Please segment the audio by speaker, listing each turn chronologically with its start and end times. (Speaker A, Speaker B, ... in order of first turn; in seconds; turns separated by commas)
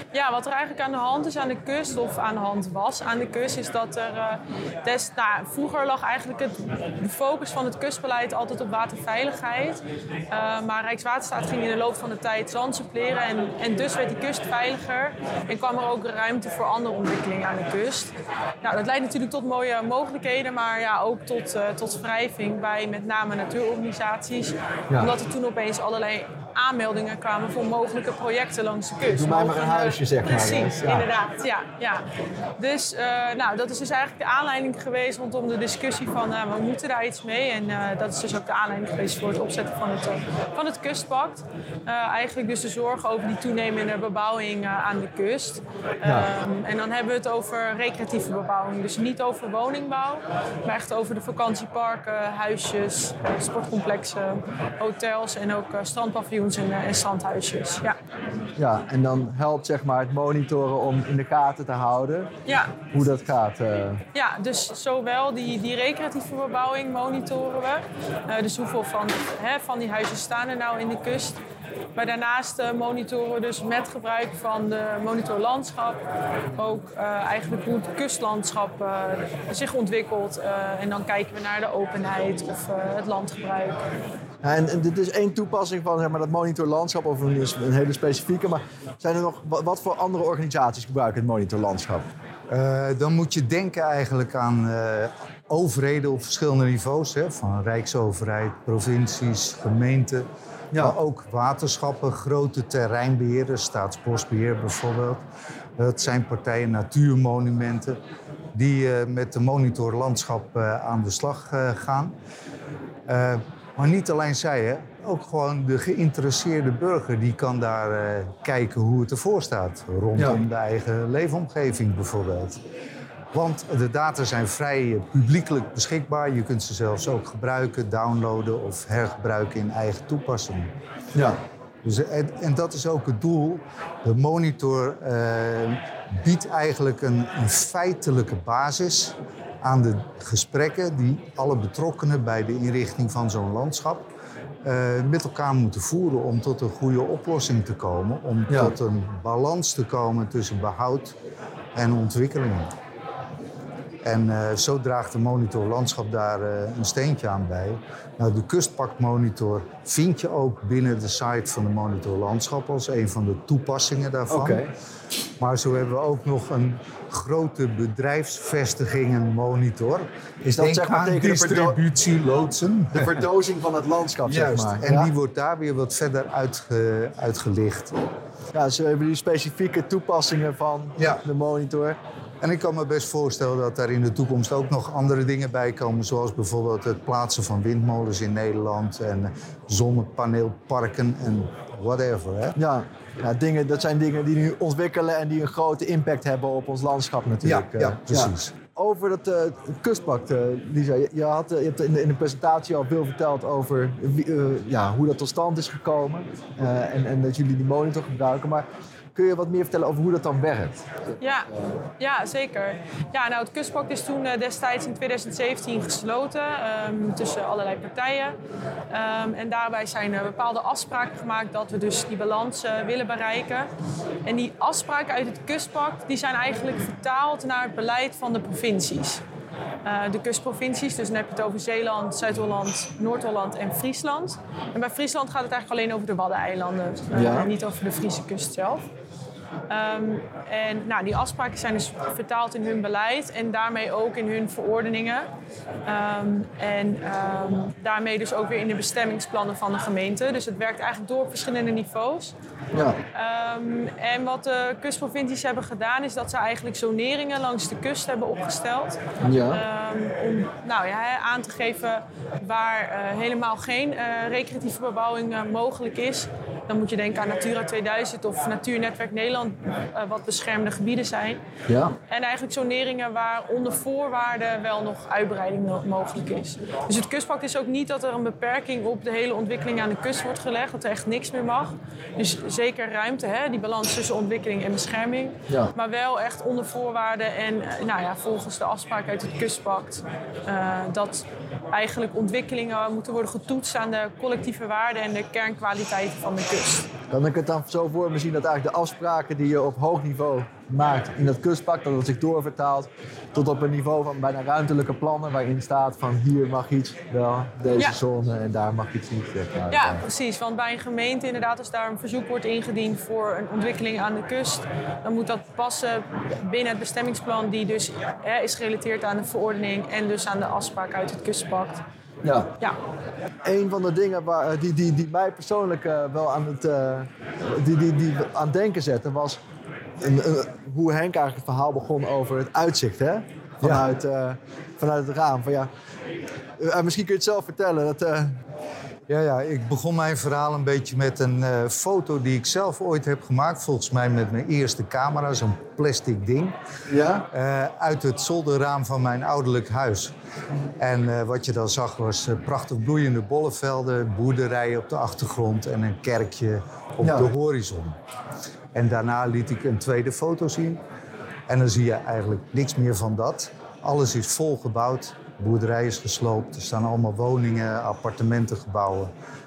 Speaker A: 0.1-32.0, Speaker B: 29.1-31.1, Speaker A: 32.6-58.0, Speaker B: 46.0-46.3, Speaker B: 58.6-62.3, Speaker A: 62.5-62.7, Speaker B: 62.9-64.0, Speaker A: 64.1-71.4, Speaker A: 72.0-76.0, Speaker A: 76.5-83.8, Speaker B: 84.4-92.1, Speaker C: 92.5-105.2, Speaker C: 105.8-108.0, Speaker C: 108.5-112.2, Speaker C: 113.1-122.6, Speaker C: 123.3-130.7, Speaker C: 131.8-144.1, Speaker C: 144.6-151.2, Speaker C: 151.8-152.8, Speaker C: 154.0-164.6, Speaker B: 164.3-164.7, Speaker C: 165.4-173.2, Speaker B: 170.4-171.8, Speaker B: 172.9-175.1, Speaker C: 174.3-177.9, Speaker B: 178.5-182.0, Speaker C: 182.4-192.6, Speaker B: 192.6-210.9, Speaker C: 197.4-198.5, Speaker A: 211.2-218.4, Speaker A: 218.9-223.7, Speaker A: 224.2-229.2, Speaker A: 229.8-238.9, Speaker B: 237.1-237.5, Speaker A: 239.7-245.3, Speaker A: 245.9-252.3, Speaker B: 252.7-253.0, Speaker A: 253.1-271.4, Speaker B: 259.2-259.6, Speaker B: 271.7-272.0, Speaker A: 272.1-296.9, Speaker B: 285.5-285.7, Speaker B: 297.1-310.0, Speaker A: 309.7-321.8, Speaker B: 322.2-322.5, Speaker B: 323.4-329.4, Speaker B: 330.0-335.7, Speaker B: 336.6-338.4, Speaker C: 339.1-346.6, Speaker B: 346.9-347.3, Speaker C: 347.3-350.1, Speaker C: 350.8-358.0, Speaker B: 357.0-357.3, Speaker C: 358.7-360.8, Speaker C: 361.5-369.1